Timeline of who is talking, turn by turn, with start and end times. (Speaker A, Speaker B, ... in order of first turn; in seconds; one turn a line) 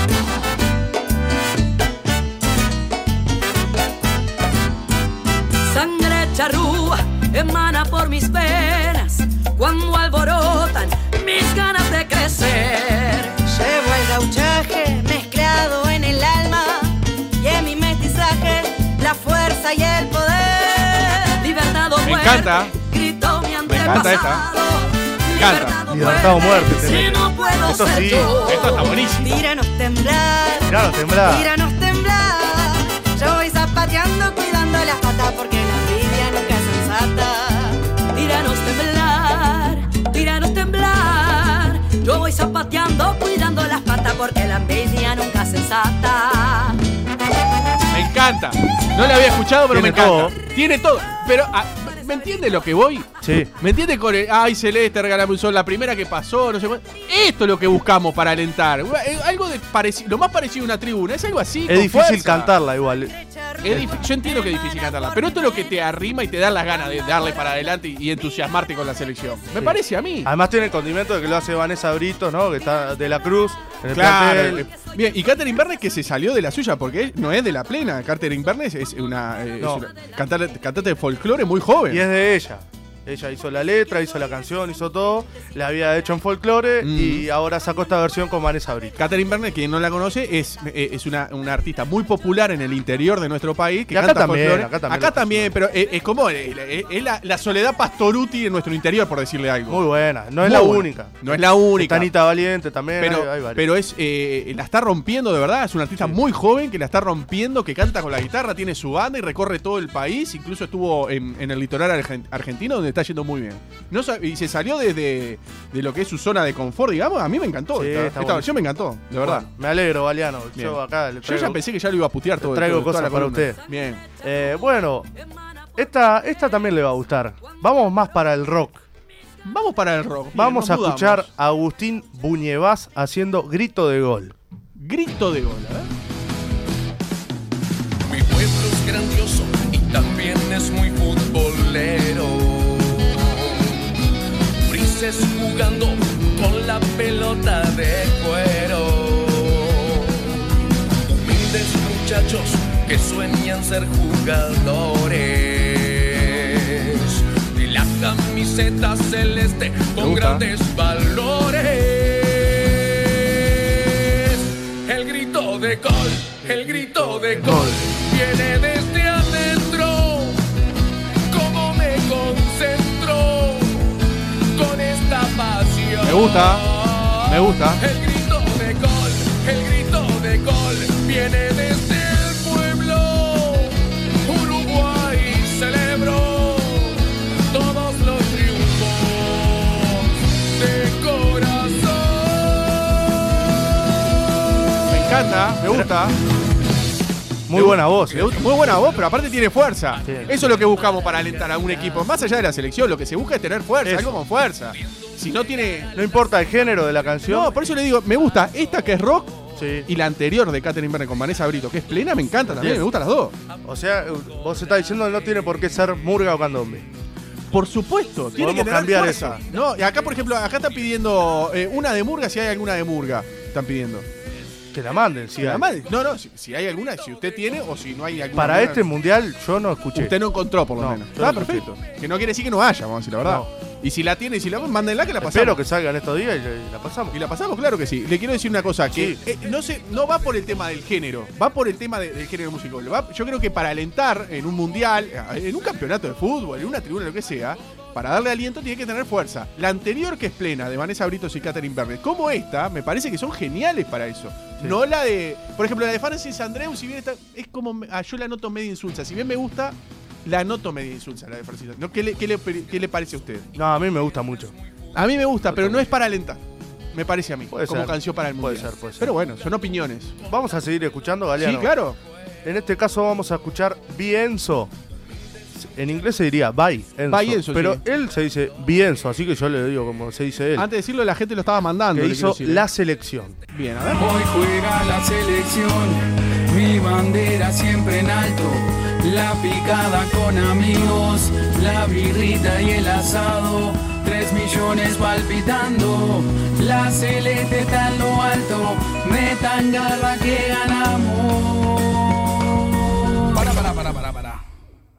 Speaker A: 5.6-13.3
Speaker B: 13.5-21.1
Speaker A: 20.8-28.9
Speaker C: 22.0-22.7
Speaker C: 23.6-24.4
Speaker C: 25.3-26.1
Speaker D: 25.9-28.4
Speaker C: 27.9-29.3
Speaker B: 29.1-37.8
Speaker D: 30.7-31.5
Speaker A: 38.1-46.8
Speaker C: 47.9-62.5
Speaker D: 49.7-50.3
Speaker D: 53.2-53.5
Speaker D: 61.7-63.1
Speaker B: 63.2-63.5
Speaker C: 63.6-70.3
Speaker D: 63.7-63.9
Speaker D: 69.6-74.7
Speaker C: 73.9-82.0
Speaker D: 79.6-79.9
Speaker D: 81.9-89.0
Speaker C: 86.8-87.2
Speaker C: 89.0-99.8
Speaker D: 93.9-95.5
Speaker D: 99.7-103.7
Speaker C: 100.4-102.1
Speaker C: 103.0-119.5
Speaker D: 117.7-118.6
Speaker D: 119.2-121.6
Speaker C: 120.5-124.0
Speaker D: 122.4-123.6
Speaker D: 124.2-125.1
Speaker D: 125.8-128.8
Speaker C: 129.4-131.3
Speaker D: 130.3-134.3
Speaker C: 134.8-135.9
Speaker E: 138.0-143.9
Speaker E: 144.6-150.4
Speaker E: 151.1-170.4
Speaker C: 160.0-160.4
Speaker C: 166.4-167.8
Speaker E: 171.3-174.0
Speaker E: 174.5-193.2
Speaker C: 176.0-176.7
Speaker C: 177.2-177.8
Speaker C: 194.9-196.2
Speaker D: 197.5-198.4
Speaker C: 197.5-205.9
Speaker D: 200.0-200.4
Speaker D: 203.8-204.2
Speaker D: 205.9-207.5
Speaker C: 207.2-213.3
Speaker D: 209.6-209.9
Speaker D: 212.5-212.9
Speaker D: 213.6-216.9
Speaker C: 217.5-224.1
Speaker D: 218.3-219.4
Speaker D: 224.7-225.8
Speaker C: 225.4-228.8
Speaker D: 228.3-230.2
Speaker C: 229.9-235.6
Speaker D: 230.7-231.7
Speaker D: 233.2-233.5
Speaker D: 235.2-237.2
Speaker C: 237.1-263.5
Speaker D: 238.9-239.2
Speaker D: 263.5-264.5
Speaker C: 264.9-266.4
Speaker D: 265.5-265.9
Speaker C: 266.9-270.2
Speaker D: 267.5-269.1
Speaker D: 270.2-271.7
Speaker C: 271.4-272.0
Speaker D: 272.4-274.7
Speaker D: 275.5-280.7
Speaker C: 277.1-277.8
Speaker C: 280.6-282.6
Speaker D: 281.9-283.4
Speaker C: 283.5-284.1
Speaker F: 283.9-304.4